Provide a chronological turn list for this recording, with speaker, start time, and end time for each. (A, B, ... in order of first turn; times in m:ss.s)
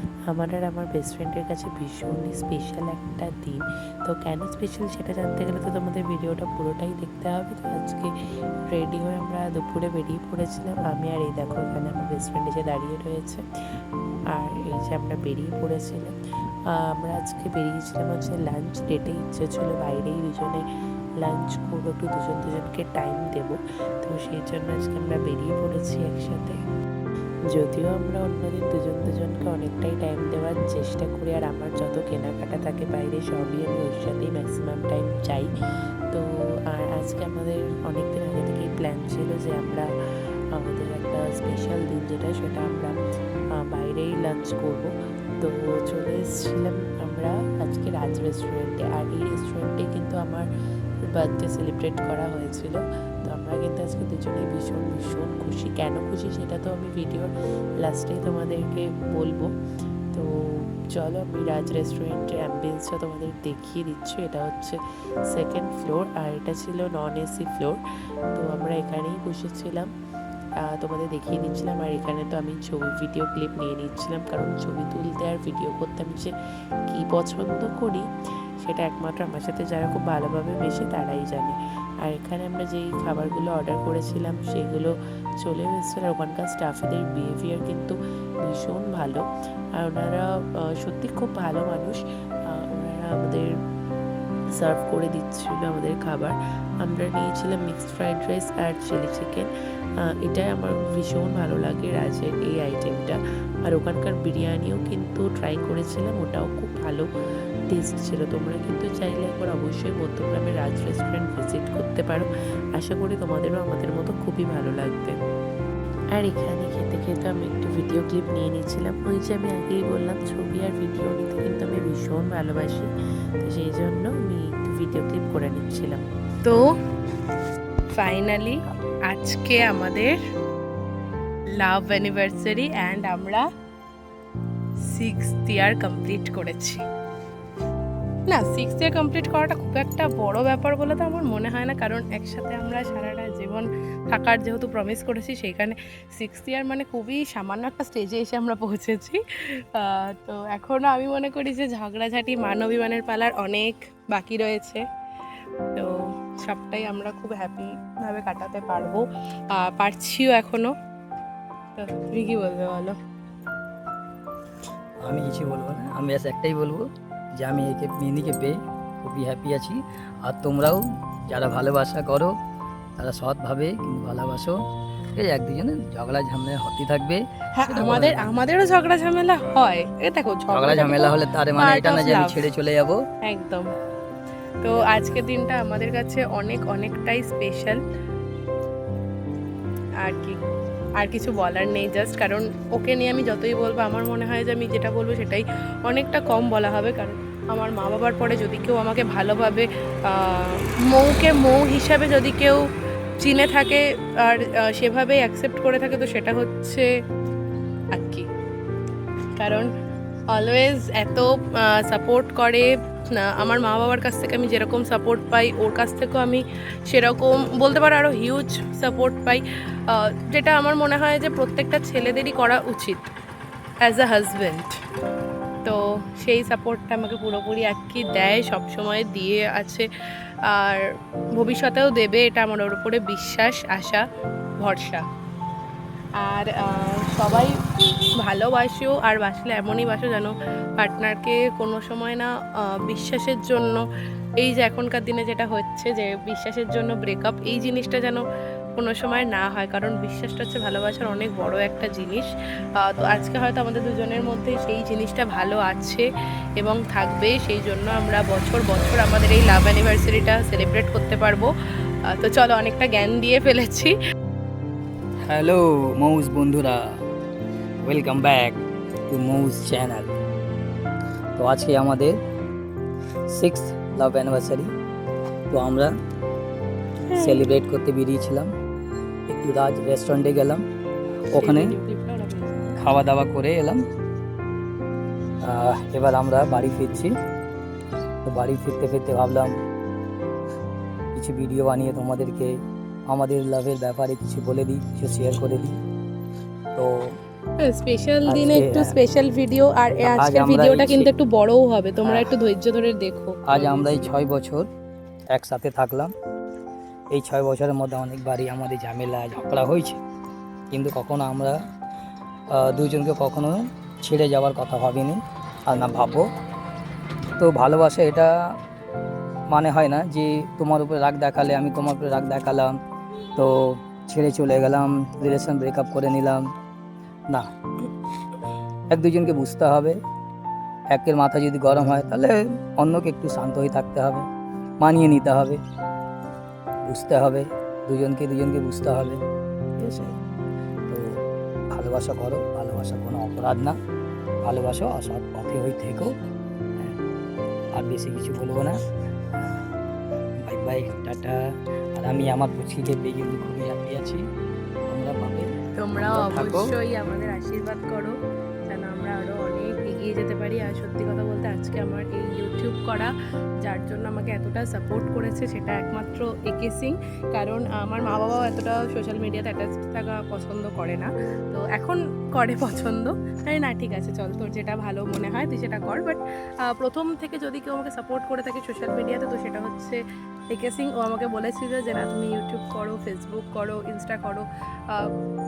0:00.3-0:08.1 A
0:08.7-0:13.4 A
0:14.3-0:16.1 A
0:16.8-0:20.6 A
0:21.2-0:26.6 A
0:27.5-0:35.5 A
0:36.1-0:39.9 A
0:40.5-0:42.9 A
0:43.6-0:50.4 A
0:51.1-0:59.5 A
1:00.1-1:04.8 A
1:05.3-1:07.8 A
1:08.3-1:09.9 A
1:10.6-1:16.3 A
1:16.9-1:18.0 A
1:18.6-1:29.2 A
1:29.8-1:32.0 A
1:32.6-1:33.5 A
1:34.6-1:39.5 A
1:40.2-1:47.1 A
1:47.7-1:55.2 A
1:56.1-2:02.9 A
2:03.4-2:06.0 A
2:07.9-2:10.2 B
2:11.6-2:13.4 B
2:14.9-2:16.8 B
2:18.3-2:34.8 B
2:35.8-2:40.7 B
2:41.8-2:42.9 B
2:45.0-2:46.8 C
2:47.4-2:52.3 C
2:53.0-2:54.6 C
2:55.2-2:58.3 C
2:57.5-3:02.4 B
3:00.5-3:03.0 C
3:03.2-3:03.7 B
3:04.6-3:07.8 B
3:10.0-3:10.4 B
3:11.0-3:22.6 B
3:23.2-3:26.9 B
3:27.9-3:28.3 B
3:29.4-3:29.7 B
3:30.3-3:43.1 B
3:43.8-3:44.7 B
3:45.6-3:49.9 B
3:50.4-3:50.8 B
3:51.4-3:54.0 B
3:54.6-3:55.0 B
3:56.2-3:57.5 B
3:58.2-4:03.8 B
4:04.4-4:08.2 B
4:08.8-4:12.3 B
4:12.8-4:16.1 B
4:16.6-4:21.5 B
4:22.1-4:23.9 B
4:25.2-4:27.0 C
4:27.8-4:30.1 C
4:31.4-4:32.1 C
4:33.3-4:34.7 C
4:35.5-4:35.9 C
4:37.1-4:37.5 B
4:37.2-4:38.5 C
4:39.3-4:40.6 C
4:41.3-4:41.7 C
4:41.3-4:42.8 B
4:42.8-4:43.8 C
4:45.4-4:47.1 C
4:48.2-4:49.5 C
4:51.1-4:52.5 C
4:53.1-4:55.8 C
4:56.7-4:57.2 C
4:57.6-5:04.1 B
4:58.2-4:59.0 C
5:00.0-5:01.1 C
5:02.0-5:02.3 C
5:03.5-5:04.7 C
5:05.3-5:06.1 C
5:07.1-5:10.0 C
5:10.7-5:11.6 C
5:12.5-5:16.3 C
5:17.4-5:18.3 C
5:19.5-5:22.7 C
5:23.4-5:26.4 C
5:28.9-5:30.0 C
5:30.9-5:34.2 C
5:34.8-5:35.6 C
5:36.9-5:39.2 C
5:39.8-5:40.2 C
5:40.9-5:41.2 C
5:41.7-5:43.7 C
5:44.4-5:46.1 C
5:47.7-5:48.8 C
5:50.4-5:51.4 C
5:52.0-5:54.2 C
5:54.9-5:55.5 C
5:55.8-5:58.1 B
5:56.0-5:56.7 C
5:58.7-6:25.1 B